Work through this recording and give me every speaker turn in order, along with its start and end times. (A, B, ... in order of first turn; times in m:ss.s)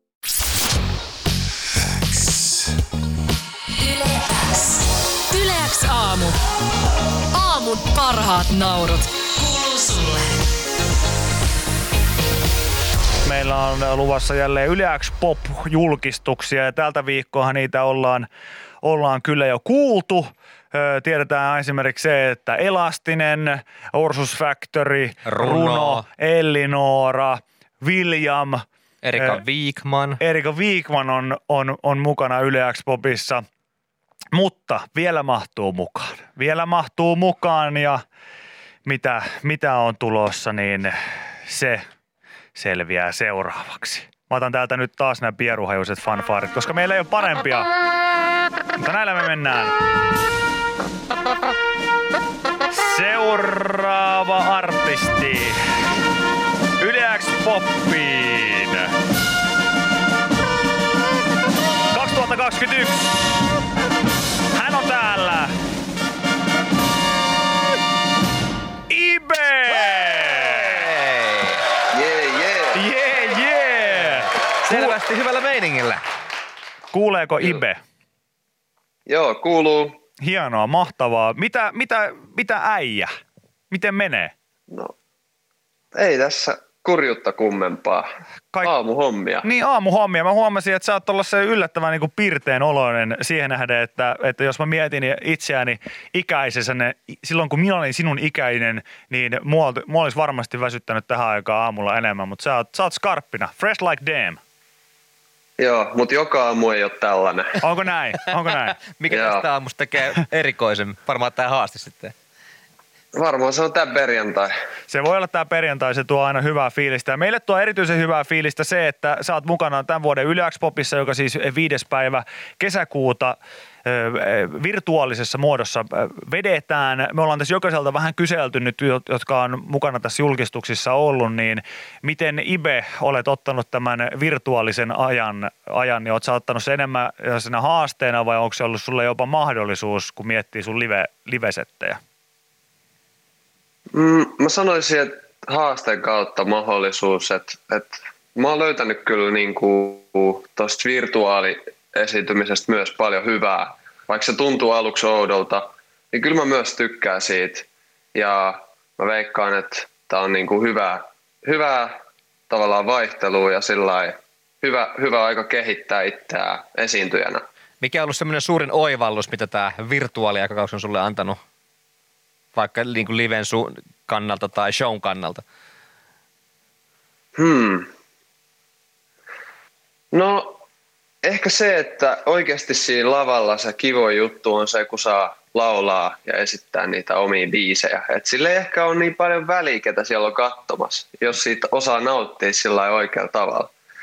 0:04.0-0:06.4 A
0:07.3-0:10.4 A
0:13.2-0:18.3 B
0:18.8-0:28.6 B
0:25.3-0:26.1 C
0:29.0-0:30.2 C
0:29.2-0:29.4 B
0:30.2-0:33.4 B
0:34.3-0:38.0 B
0:38.8-0:41.8 B
0:42.6-0:47.7 B
0:48.8-0:49.8 B
0:52.7-0:55.7 B
0:56.8-0:58.9 B
1:01.9-1:03.2 B
1:04.5-1:05.5 B
1:08.9-1:10.9 B
1:10.9-1:11.6 C
1:11.9-1:12.8 D
1:12.7-1:15.0 B
1:14.6-1:16.0 C
1:16.9-1:17.8 B
1:19.1-1:20.0 D
1:20.2-1:23.1 B
1:23.7-1:24.3 B
1:25.9-1:28.1 D
1:28.6-1:29.5 D
1:29.4-1:44.4 B
1:45.6-1:47.6 D
1:47.6-1:48.8 B
1:48.8-1:52.1 C
1:49.1-1:49.4 D
1:53.1-1:54.5 D
1:54.9-2:22.0 B
2:23.9-2:42.0 D
2:42.5-2:47.4 D
2:47.8-2:51.4 C
2:52.6-2:55.4 C
2:57.4-2:57.9 D
3:00.1-3:00.6 D
3:01.2-3:13.7 D